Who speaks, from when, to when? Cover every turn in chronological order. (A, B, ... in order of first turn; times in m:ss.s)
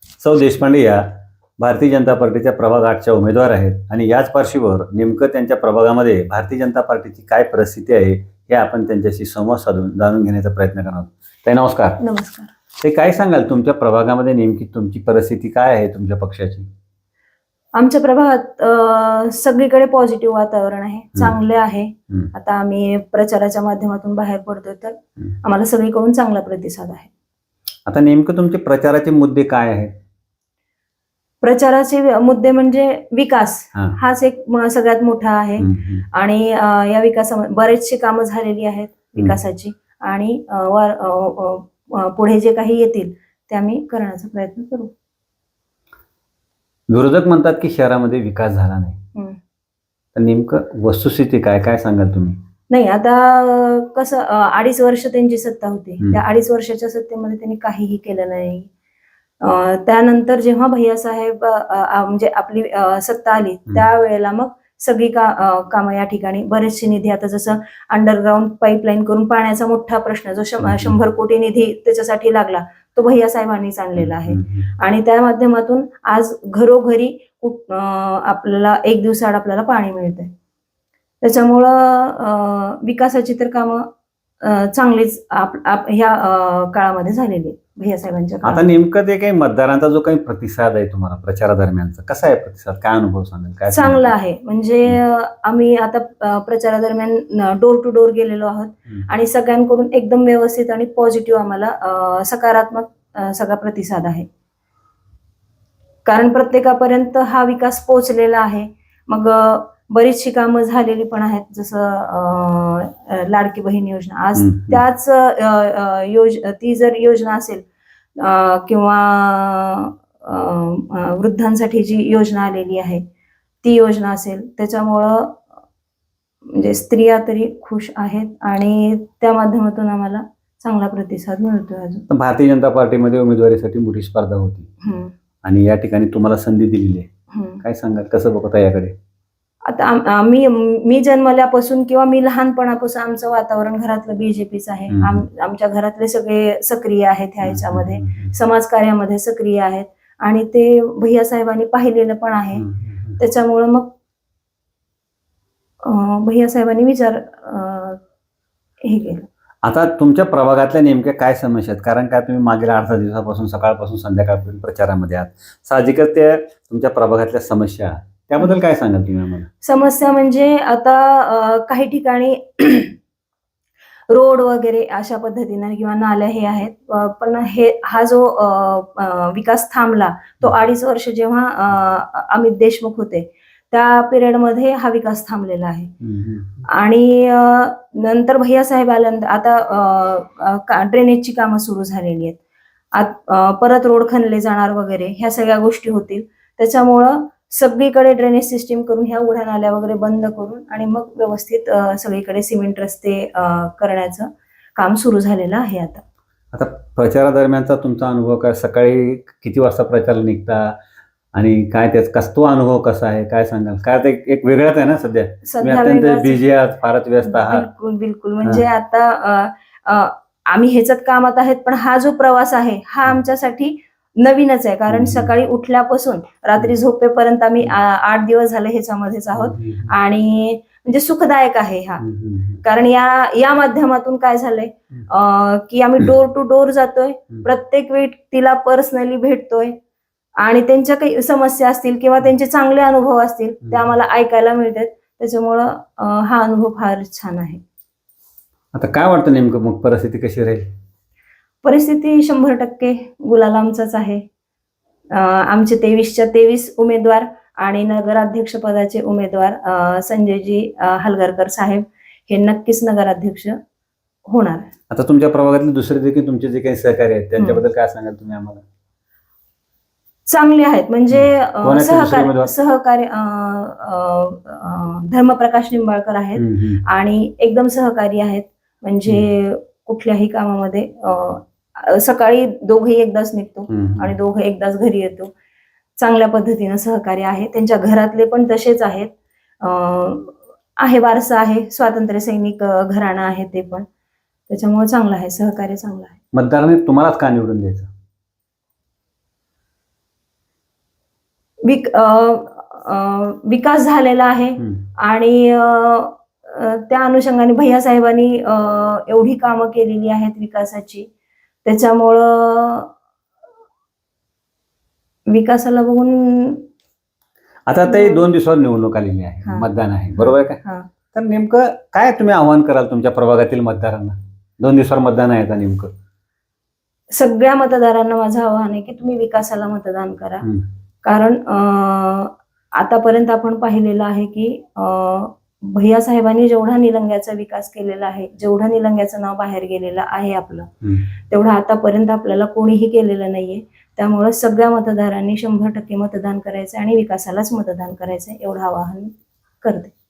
0:00.2-0:01.1 A
0:01.6-0:12.0 A
0:12.0-0:12.5 B
0:12.8-0:16.7 A
0:17.8-0:27.1 B
0:27.9-0:30.0 A
0:31.4-0:44.9 B
0:35.6-0:36.0 A
0:46.9-0:49.0 A
0:50.2-0:52.4 A
0:52.7-0:58.7 B
0:59.4-1:20.3 B
1:10.6-1:11.0 A
1:14.0-1:14.7 A
1:21.2-1:23.9 B
1:24.4-1:28.7 B
1:28.4-1:34.1 A
1:33.7-1:44.3 B
1:46.0-1:57.6 B
1:54.4-1:54.8 A
1:58.2-2:03.0 B
2:03.6-2:05.4 B
2:06.5-2:12.1 B
2:12.1-2:14.7 A
2:14.8-2:15.1 B
2:15.4-2:17.1 A
2:17.3-2:17.6 B
2:17.6-2:19.0 A
2:19.7-2:32.7 B
2:24.9-2:25.3 A
2:27.4-2:28.4 A
2:32.6-2:33.2 A
2:33.2-2:33.9 B
2:35.8-2:38.0 B
2:38.8-2:39.3 B
2:39.6-2:49.5 A
2:49.6-2:53.0 B
2:54.1-3:05.9 B
3:06.0-3:06.7 A
3:06.7-3:12.4 B
3:12.9-3:26.0 B
3:26.5-3:30.8 A
3:31.4-3:37.7 A
3:35.5-3:36.4 B
3:37.3-3:52.0 B
3:44.9-3:45.3 A
3:49.4-3:49.9 A
3:52.0-3:52.6 A
3:52.6-3:59.8 B
4:00.4-4:07.6 B
4:08.7-4:10.7 A
4:11.6-4:14.2 B
4:15.1-4:23.6 B
4:24.3-4:24.7 B
4:24.9-4:28.6 A
4:30.3-4:45.3 B
4:31.1-4:32.5 A
4:36.4-4:36.8 A
4:43.7-4:44.1 A
4:46.0-4:53.9 B
4:54.5-4:56.2 B
4:56.3-4:57.9 A
5:01.6-5:11.1 B
5:11.6-5:12.9 B
5:15.3-5:16.6 B
5:17.7-5:20.6 A
5:17.9-5:18.2 B
5:19.4-5:20.9 B
5:21.1-5:25.9 A
5:27.1-5:30.5 B
5:31.0-5:40.7 B
5:41.3-5:49.9 B